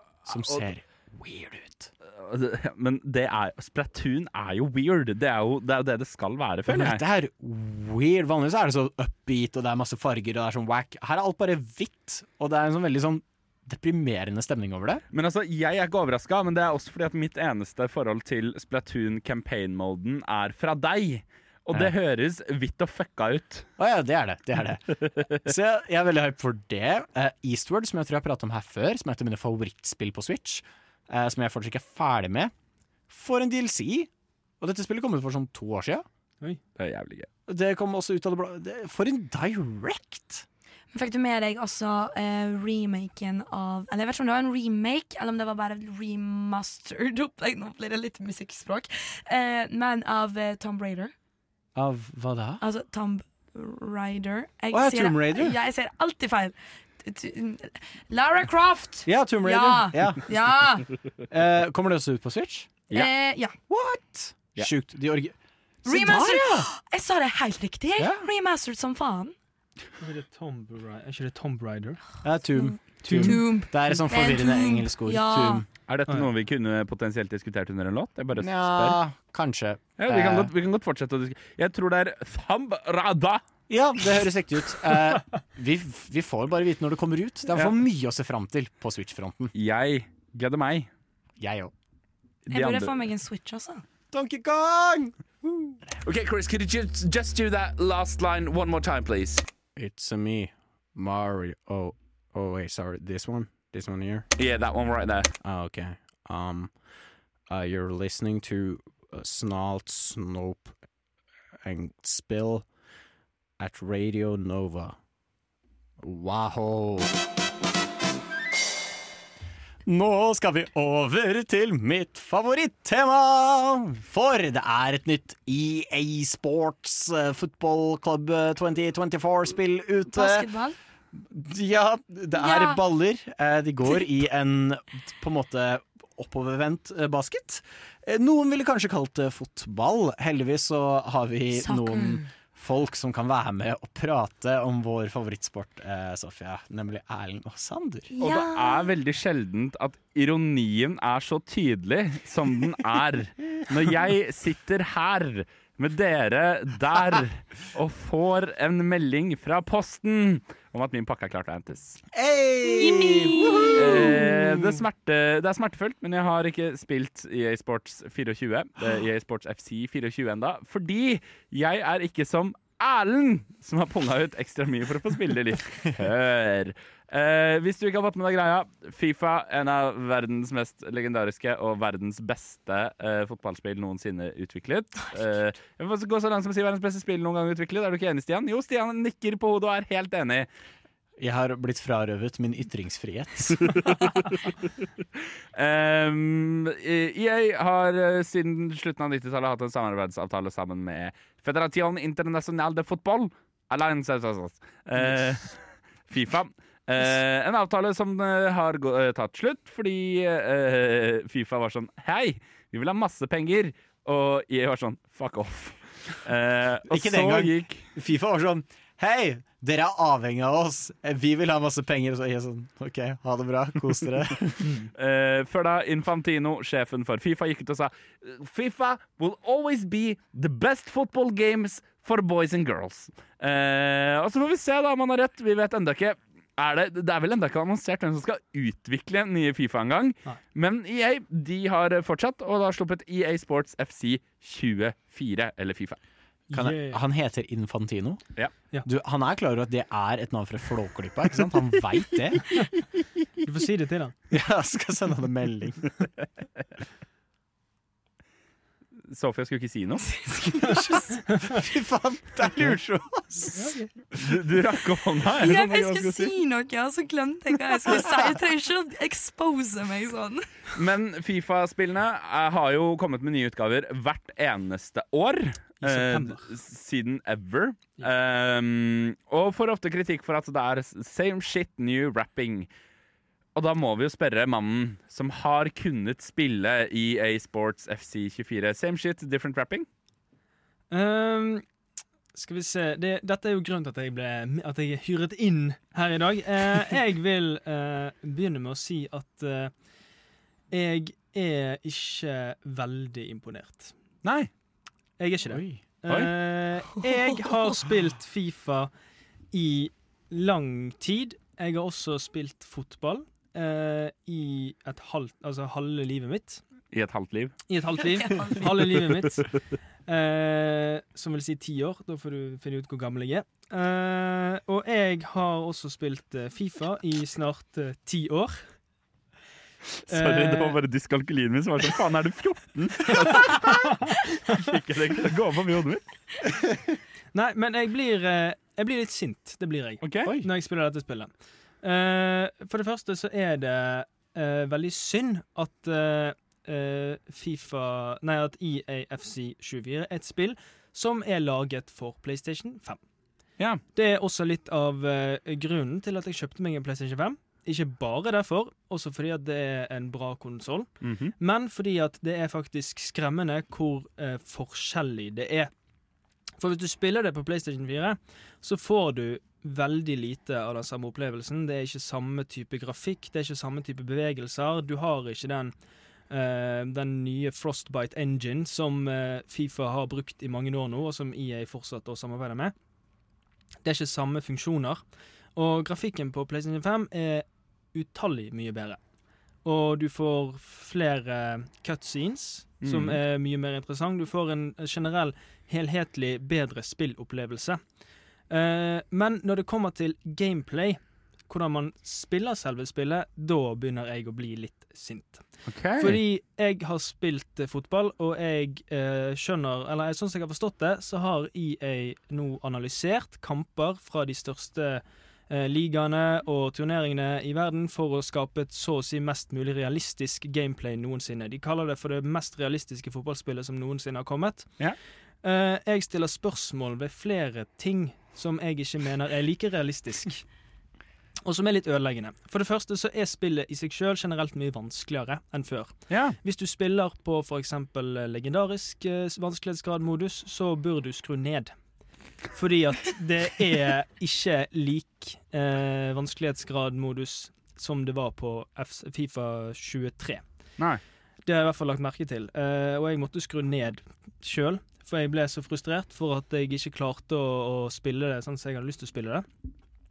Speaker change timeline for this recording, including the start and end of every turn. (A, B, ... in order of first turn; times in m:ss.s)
0:00.3-0:01.9 A
0:00.3-0:00.6 B
0:02.0-0:07.0 B
0:06.7-0:15.0 A
0:15.1-0:23.7 B
0:23.8-0:32.5 A
0:33.1-0:34.1 A
0:34.6-0:36.1 A
0:36.8-0:37.3 B
0:37.5-0:40.5 A
0:40.9-0:51.1 C
0:51.8-0:52.6 A
0:52.6-1:00.9 C
0:54.7-0:55.6 A
0:59.1-1:00.2 A
1:01.3-1:03.1 A
1:02.9-1:03.6 C
1:03.7-1:06.7 A
1:05.9-1:09.4 C
1:08.0-1:08.3 A
1:10.0-1:12.0 D
1:12.2-1:15.7 A
1:12.5-1:15.6 C
1:13.0-1:13.4 D
1:15.9-1:19.0 B
1:18.4-1:20.5 A
1:20.0-1:23.4 B
1:23.7-1:29.5 A
1:29.6-1:30.9 B
1:31.4-1:31.7 A
1:32.5-1:32.9 B
1:32.5-1:33.8 C
1:34.1-1:35.8 A
1:36.0-1:39.4 B
1:39.8-1:44.3 A
1:44.4-1:45.3 B
1:45.4-1:46.8 A
1:47.5-1:50.8 A
1:51.6-1:52.7 A
1:53.6-1:55.0 A
1:56.0-1:57.1 A
1:59.8-2:10.5 A
2:10.1-2:10.8 C
2:11.2-2:28.1 A
2:12.4-2:12.8 C
2:21.5-2:22.3 C
2:28.1-2:28.9 C
2:28.2-2:42.0 B
2:42.1-2:44.8 A
2:42.8-2:43.8 C
2:43.7-3:10.5 B
3:11.2-3:13.9 A
3:13.9-3:14.2 B
3:15.6-3:37.8 B
3:36.9-3:44.7 A
3:44.6-3:44.9 D
3:45.0-4:06.0 B
4:06.5-4:07.0 D
4:06.5-4:08.2 A
4:08.8-4:12.5 A
4:13.4-4:14.2 D
4:14.3-4:15.9 A
4:19.1-4:20.1 B
4:20.3-4:21.2 C
4:20.5-4:24.4 A
4:23.6-4:23.9 D
4:24.2-4:26.3 B
4:25.4-4:30.5 C
4:30.8-4:42.7 B
4:35.8-4:36.5 D
4:43.6-4:49.9 B
4:50.9-4:51.6 D
4:52.3-4:59.7 D
5:00.7-5:03.9 D
5:04.2-5:04.5 B
5:05.2-5:08.9 D
5:05.5-5:05.8 A
5:06.1-5:06.3 B
5:09.5-5:16.6 D
5:16.9-5:17.6 B
5:17.7-5:28.7 D
5:18.0-5:18.7 C
5:30.1-5:33.9 B
5:30.1-5:30.8 D
5:34.5-5:36.0 B
5:37.3-5:53.0 D
5:40.0-5:40.3 B
5:54.0-6:05.7 D
6:01.0-6:01.3 B
6:06.6-6:15.8 D
6:16.3-6:22.7 D
6:23.8-6:25.0 D
6:25.6-6:29.0 D
6:29.6-6:37.8 D
6:32.8-6:33.2 B
6:38.5-7:04.9 D
6:45.7-6:46.2 B
7:05.4-7:10.4 D
7:11.4-7:21.8 D
7:16.1-7:16.4 B
7:22.5-7:30.5 D
7:31.4-7:39.5 D